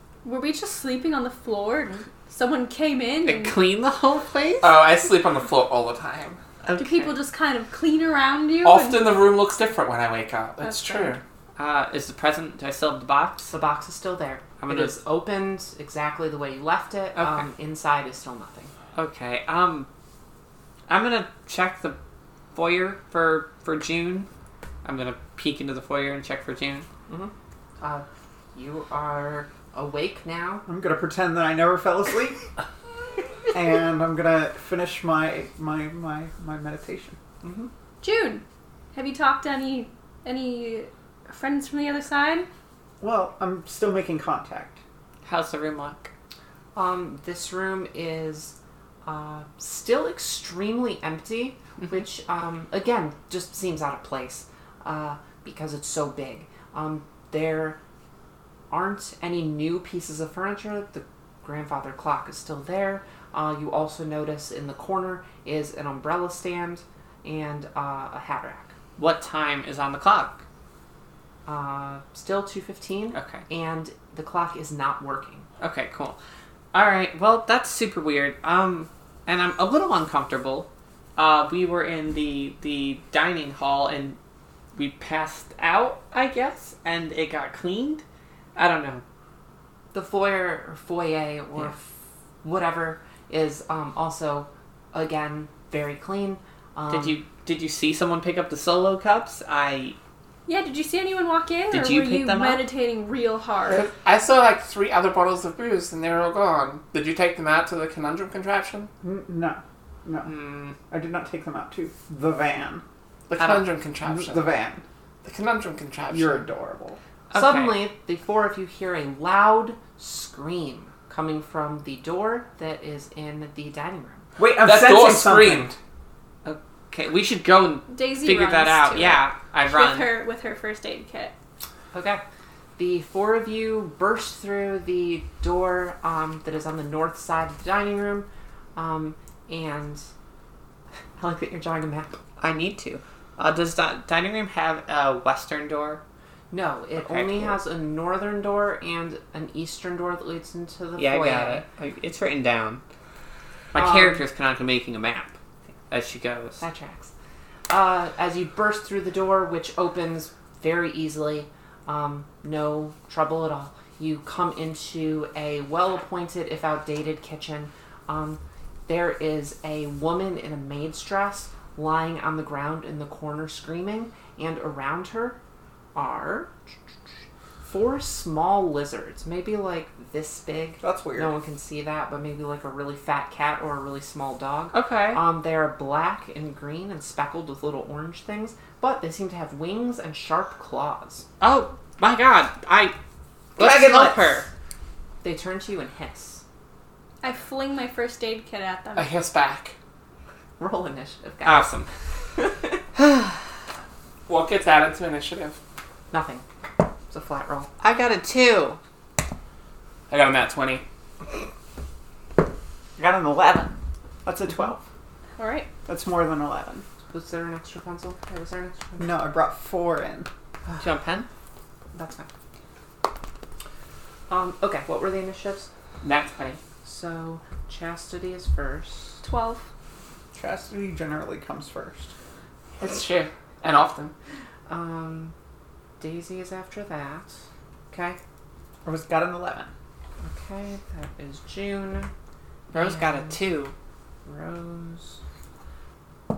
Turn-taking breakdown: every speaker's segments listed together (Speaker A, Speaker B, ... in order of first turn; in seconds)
Speaker A: 0.2-3.6, 6.8-9.1, 10.6-11.1, 38.0-42.5, 100.5-103.8, 127.9-131.3, 197.2-199.1, 215.4-215.7, 229.2-229.7
Speaker B: 3.2-4.7, 6.6-7.1, 11.6-13.5, 14.6-15.0, 17.1-17.4, 18.9-19.9, 20.9-22.0, 22.5-24.3, 24.8-26.9, 45.2-46.1, 69.0-70.4, 73.1-73.4, 75.6-76.2, 76.7-84.2, 84.7-88.0, 88.5-89.0, 96.9-100.0, 101.7-102.6, 110.2-110.8, 117.3-117.8, 126.4-130.1, 142.4-146.0, 147.0-147.6, 151.0-152.8, 153.7-155.3, 155.9-156.6, 184.7-185.2, 191.4-192.9, 193.6-194.5, 201.4-201.9, 203.0-203.4, 207.8-208.8, 220.8-221.3, 226.0-226.6, 242.7-243.7
Speaker C: 4.6-6.4, 8.6-11.2, 103.7-108.9, 113.3-114.5, 115.2-116.4, 124.6-125.8, 198.9-199.7, 204.3-205.6, 210.1-210.8, 226.0-226.6, 232.8-234.1
Speaker D: 13.5-18.7, 27.1-30.6, 37.4-37.7, 46.7-57.8, 58.7-68.7, 71.5-75.5, 89.9-91.9, 92.4-97.2, 117.3-124.2, 131.9-132.2, 132.8-140.1, 141.2-142.2, 146.5-151.6, 153.7-154.2, 156.6-157.1, 157.7-175.4, 175.9-176.5, 177.6-191.2, 195.2-196.4, 200.6-201.8, 202.4-202.8, 206.1-206.4, 207.1-207.7, 217.1-219.2, 221.9-222.3, 224.3-225.7, 226.8-229.2, 234.7-235.3, 236.0-237.4, 237.9-238.2, 240.2-242.1, 242.7-243.4, 244.2-245.2
Speaker E: 30.6-32.4, 33.5-37.2, 43.0-44.8, 109.0-112.8, 114.0-114.8, 116.1-117.0, 124.4-125.7, 180.8-181.3, 193.6-194.4, 213.0-214.8, 215.8-216.8, 219.0-220.3, 230.3-232.1, 238.8-239.7